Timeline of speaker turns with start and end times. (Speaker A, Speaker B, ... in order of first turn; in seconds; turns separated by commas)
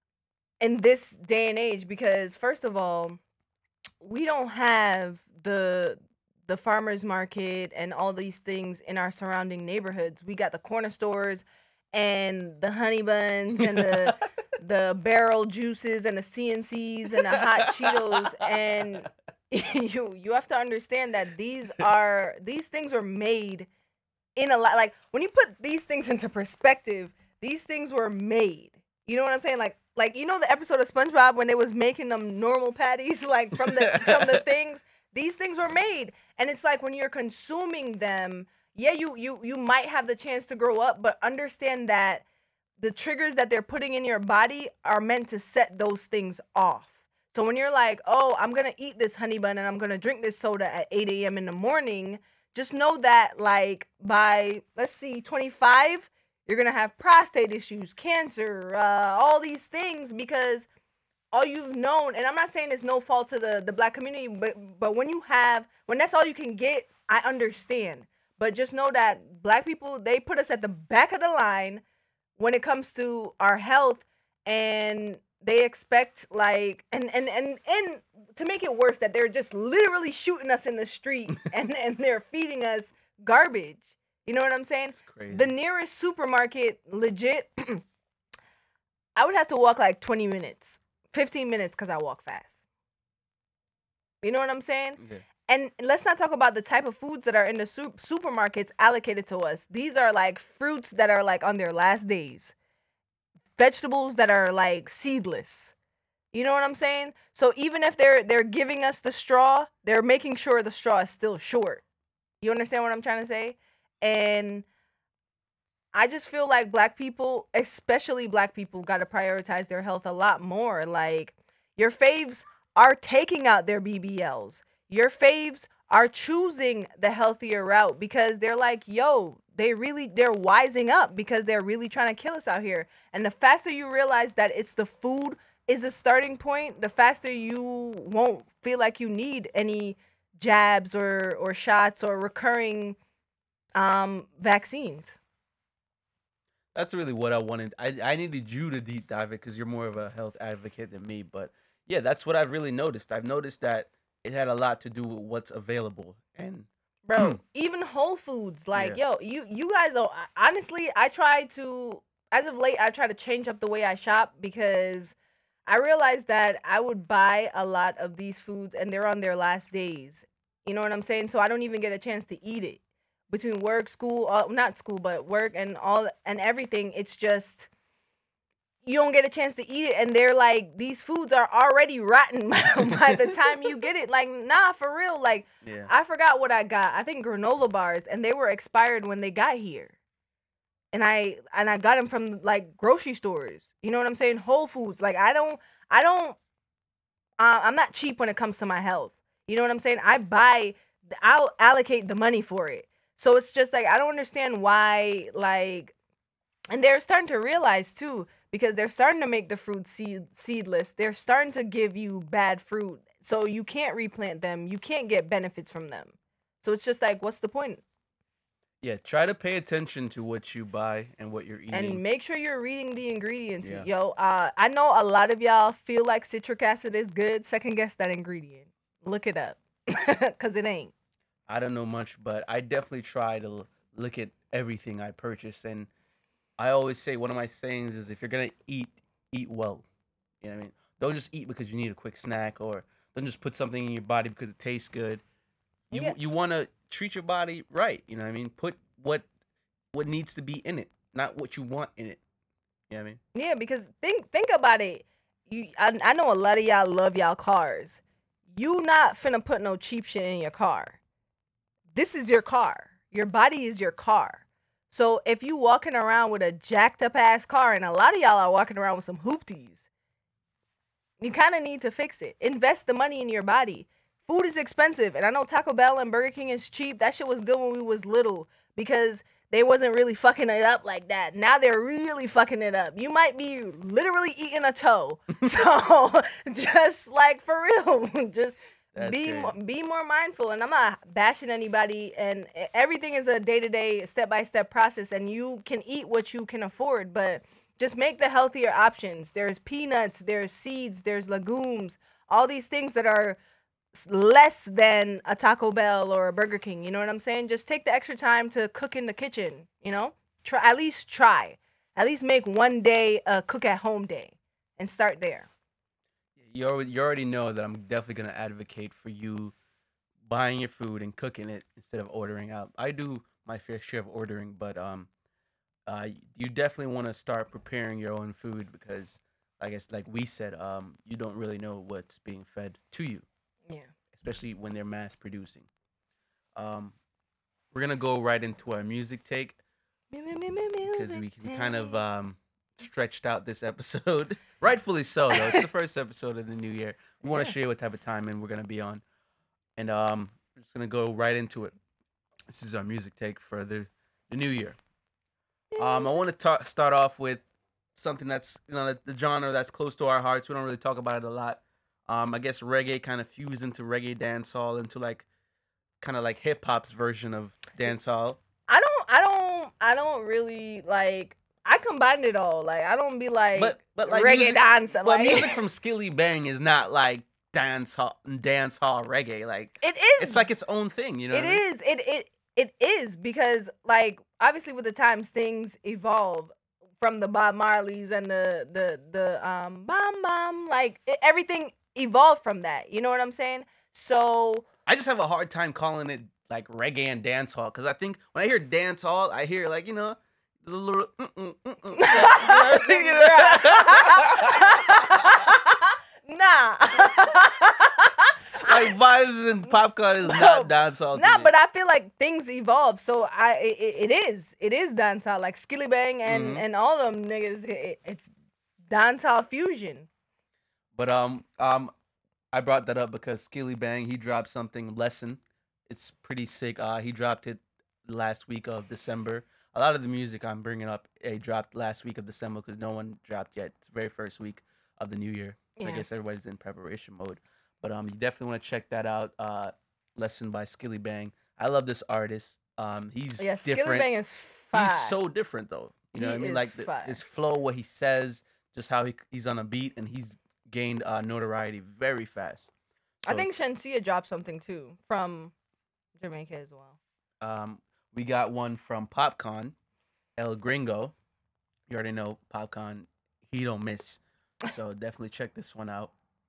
Speaker A: 0.6-3.2, Speaker A: 4.0-23.7, Speaker B: 13.6-14.1, Speaker B: 17.4-19.1, Speaker A: 24.4-42.2, Speaker B: 33.6-34.4, Speaker A: 42.8-60.7, Speaker A: 61.3-71.8, Speaker A: 72.4-87.8, Speaker B: 85.0-85.5, Speaker A: 89.2-92.6, Speaker A: 94.2-102.5, Speaker A: 103.6-105.7, Speaker A: 106.3-111.8, Speaker A: 112.4-114.7, Speaker A: 115.9-143.0, Speaker A: 143.8-145.2, Speaker B: 146.7-157.4, Speaker A: 157.1-165.2, Speaker A: 165.7-177.7, Speaker A: 178.8-190.0, Speaker B: 185.6-185.9, Speaker A: 190.9-196.4, Speaker A: 197.4-205.9, Speaker A: 206.7-217.8, Speaker B: 218.8-222.0, Speaker A: 221.7-230.9, Speaker B: 223.6-223.9, Speaker B: 231.5-235.9, Speaker B: 236.6-239.8, Speaker B: 240.4-245.2, Speaker B: 245.9-249.3, Speaker B: 249.9-252.2, Speaker B: 252.9-253.2, Speaker A: 253.3-258.0, Speaker A: 258.5-261.0, Speaker A: 261.9-269.9, Speaker A: 271.2-303.4, Speaker B: 288.9-289.6, Speaker A: 303.9-315.5, Speaker B: 316.4-319.5, Speaker B: 320.2-325.1, Speaker B: 325.9-333.3, Speaker B: 334.1-335.7, Speaker B: 336.6-336.9, Speaker B: 337.7-339.6, Speaker A: 340.1-342.0, Speaker B: 340.9-349.0, Speaker A: 345.3-345.6, Speaker A: 347.2-347.5, Speaker B: 349.8-351.7, Speaker B: 352.5-354.8, Speaker A: 355.7-356.2, Speaker B: 355.8-357.4, Speaker B: 357.9-365.3, Speaker B: 366.0-368.4, Speaker A: 368.7-375.6, Speaker B: 373.6-381.6, Speaker A: 379.8-380.5, Speaker A: 381.3-394.7, Speaker B: 394.9-405.4, Speaker A: 402.0-408.8, Speaker B: 408.6-411.5, Speaker A: 410.2-418.3, Speaker B: 416.2-416.6, Speaker A: 418.9-420.1, Speaker B: 420.9-421.9, Speaker B: 422.5-444.1, Speaker A: 435.8-436.1, Speaker A: 443.4-445.2, Speaker B: 444.7-452.7, Speaker A: 446.2-447.2, Speaker B: 453.2-453.5, Speaker A: 453.3-455.5, Speaker A: 456.2-457.0, Speaker B: 457.4-459.7, Speaker B: 460.4-461.1, Speaker B: 461.9-466.1